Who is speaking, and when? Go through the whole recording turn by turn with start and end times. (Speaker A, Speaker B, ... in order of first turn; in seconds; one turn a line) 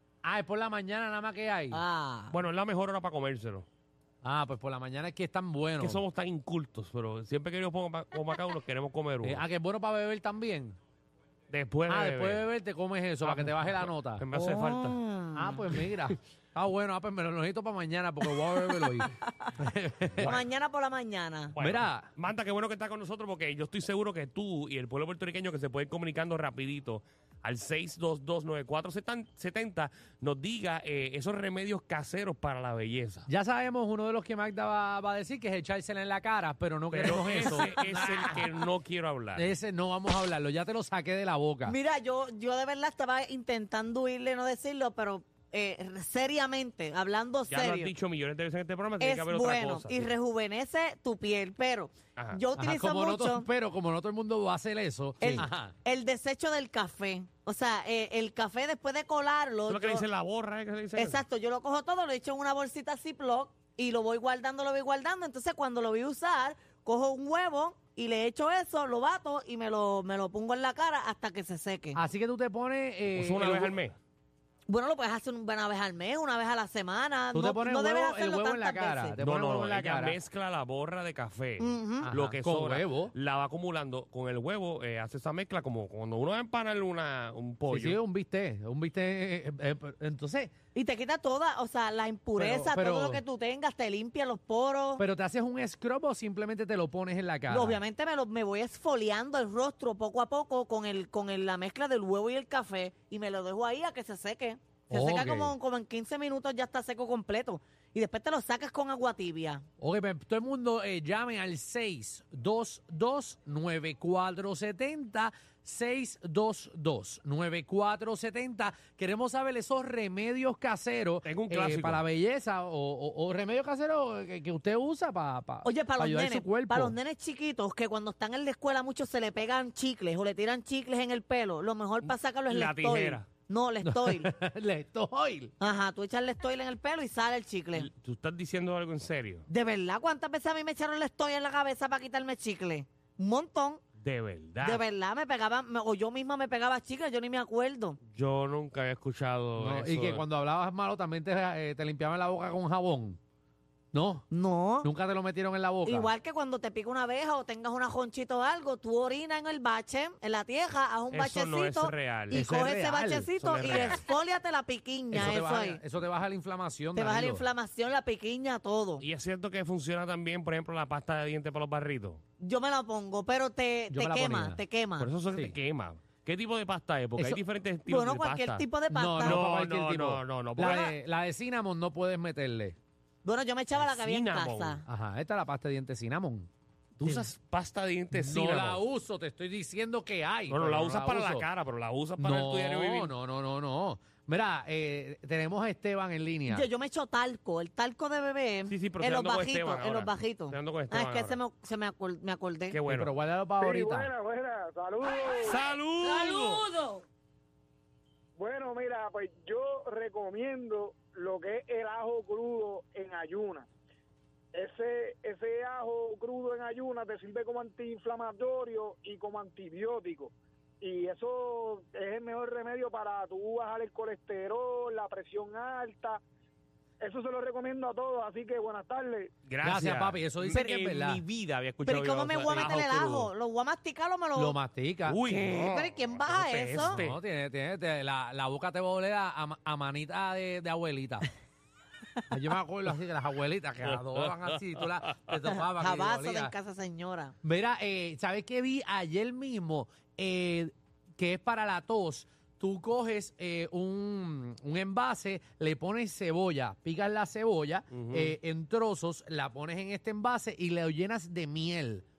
Speaker A: 0.2-1.8
Speaker B: 1.7-2.4
Speaker C: 2.3-3.6
Speaker A: 4.2-6.0
Speaker C: 5.8-9.4
Speaker A: 9.2-10.8
Speaker C: 11.5-12.5
Speaker A: 11.9-14.2
Speaker C: 13.2-15.0
Speaker B: 14.3-15.7
Speaker A: 15.3-20.4
Speaker C: 20.2-20.4
Speaker B: 20.2-21.5
Speaker C: 21.5-33.3
Speaker A: 21.6-22.1
Speaker A: 33.3-38.6
Speaker C: 36.9-39.5
Speaker A: 39.3-41.8
Speaker B: 41.6-47.9
Speaker C: 47.5-50.1
Speaker B: 49.0-53.5
Speaker C: 52.1-52.4
Speaker A: 52.6-55.7
Speaker B: 55.2-60.0
Speaker C: 59.6-61.2
Speaker B: 61.0-72.0
Speaker A: 71.9-73.8
Speaker C: 73.1-73.9
Speaker B: 74.7-79.2
Speaker A: 77.3-80.2
Speaker C: 79.2-88.0
Speaker B: 81.6-82.1
Speaker A: 82.0-83.1
Speaker A: 87.7-90.5
Speaker B: 90.7-95.0
Speaker A: 92.4-93.2
Speaker A: 95.0-97.8
Speaker B: 97.5-109.6
Speaker A: 104.9-105.5
Speaker A: 109.8-127.0
Speaker C: 121.2-122.0
Speaker B: 125.6-134.3
Speaker C: 132.0-133.3
Speaker A: 133.8-135.5
Speaker B: 135.6-137.9
Speaker C: 137.7-139.4
Speaker B: 139.5-143.8
Speaker C: 144.0-144.8
Speaker B: 144.6-148.0
Speaker C: 148.1-150.2
Speaker A: 149.6-153.2
Speaker A: 153.9-154.3
Speaker B: 154.3-154.9
Speaker A: 154.8-156.1
Speaker B: 155.8-165.8
Speaker C: 161.1-162.4
Speaker A: 162.3-164.0
Speaker C: 163.3-164.0
Speaker A: 165.1-167.5
Speaker B: 166.9-169.0
Speaker C: 169.0-172.2
Speaker B: 172.4-175.1
Speaker A: 173.9-174.6
Speaker C: 175.0-178.7
Speaker B: 177.9-179.4
Speaker A: 178.9-182.8
Speaker C: 179.2-180.9
Speaker B: 183.2-184.8
Speaker C: 183.8-184.8
Speaker A: 184.8-186.5
Speaker C: 187.0-188.8
Speaker A: 187.0-187.3
Speaker A: 188.1-191.5
Speaker C: 190.5-193.1
Speaker A: 192.2-196.7
Speaker B: 196.5-202.8
Speaker C: 198.7-201.4
Speaker C: 202.7-203.1
Speaker A: 202.9-204.1
Speaker D: 203.6-205.6
Speaker C: 205.4-206.7
Speaker D: 208.4-213.7
Speaker D: 214.6-226.2
Speaker D: 227.0-229.3
Speaker C: 229.5-233.3
Speaker A: 229.6-231.2
Speaker B: 231.8-234.6
Speaker A: 234.3-235.2
Speaker C: 235.1-237.2
Speaker B: 235.3-237.0
Speaker A: 236.8-241.3
Speaker A: 242.3-246.5
Speaker C: 243.9-245.3
Speaker B: 245.7-247.3
Speaker A: 247.4-262.0
Speaker C: 257.9-258.3